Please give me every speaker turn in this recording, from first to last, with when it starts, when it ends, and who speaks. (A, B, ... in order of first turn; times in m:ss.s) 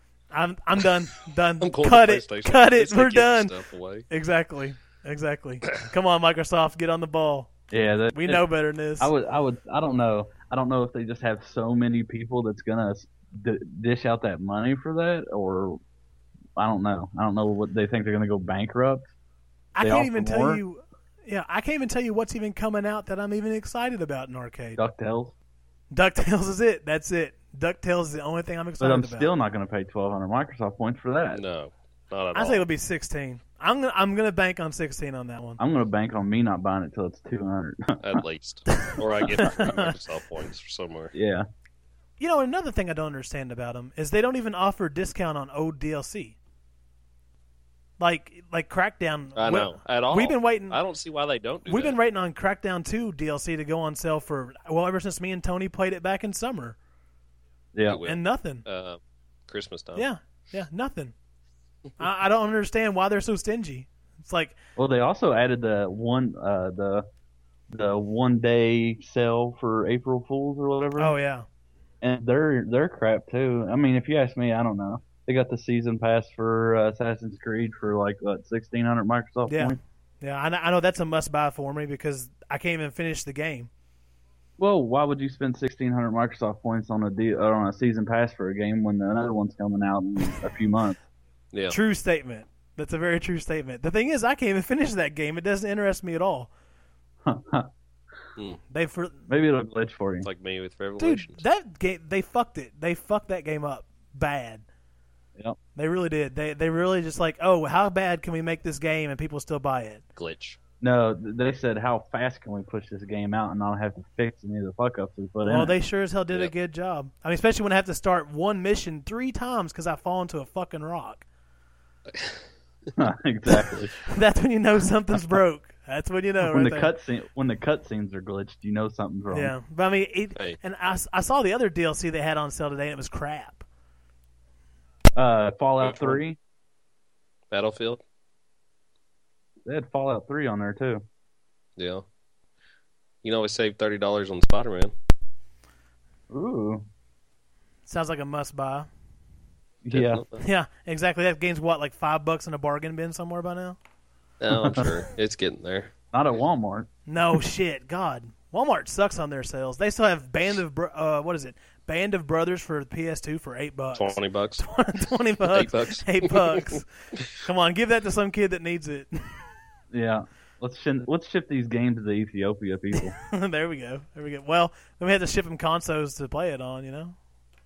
0:00.3-0:03.5 A
0:01.6-0:04.0 B
0:04.1-0:07.5 A
0:07.7-0:08.4 C
0:08.1-0:09.1 A
0:09.0-0:15.8 C
0:16.6-0:19.1 C
0:19.7-0:24.8 A
0:19.8-0:20.6 C
0:24.8-0:25.3 C
0:25.9-0:29.3 A
0:28.8-0:31.4 C
0:31.3-0:32.6 B
0:32.3-0:35.6 A
0:35.6-0:38.2 C
0:38.0-0:41.1 B
0:38.7-0:39.9 A
0:41.1-0:41.4 C
0:42.2-0:46.4 A
0:48.0-0:50.8 A
0:49.4-0:52.0 B
0:51.7-0:56.8 A
0:57.7-0:58.0 C
0:57.8-1:00.0 B
0:58.0-0:58.6 A
1:00.0-1:01.1 A
1:02.0-1:04.6 A
1:04.8-1:07.0 C
1:07.7-1:11.1 C
1:11.0-1:11.4 A
1:12.0-1:19.8 C
1:19.5-1:23.7 A
1:24.6-1:31.0 C
1:31.7-1:36.5 A
1:37.2-1:37.7 C
1:38.7-1:39.2 A
1:39.3-1:40.3 C
1:40.2-1:41.4 B
1:41.0-1:44.6 A
1:45.8-1:50.0 A
1:50.2-1:50.6 B
1:50.8-1:55.7 C
1:55.4-2:01.2 A
2:02.1-2:02.4 B
2:03.0-2:03.9 C
2:04.0-2:06.9 A
2:06.4-2:09.5 C
2:09.3-2:13.6 A
2:15.2-2:16.4 C
2:15.8-2:16.2 B
2:17.5-2:18.0 B
2:19.6-2:21.0 C
2:21.8-2:22.0 B
2:23.2-2:24.9 B
2:26.3-2:26.8 C
2:27.8-2:28.9 A
2:29.8-2:30.2 C
2:29.9-2:30.4 B
2:30.4-2:33.8 A
2:34.4-2:35.9 B
2:34.5-2:34.9 C
2:36.1-2:36.9 C
2:37.1-2:49.4 A
2:44.0-2:44.6 B
2:45.5-2:47.3 B
2:49.9-2:53.1 C
2:53.0-2:57.2 A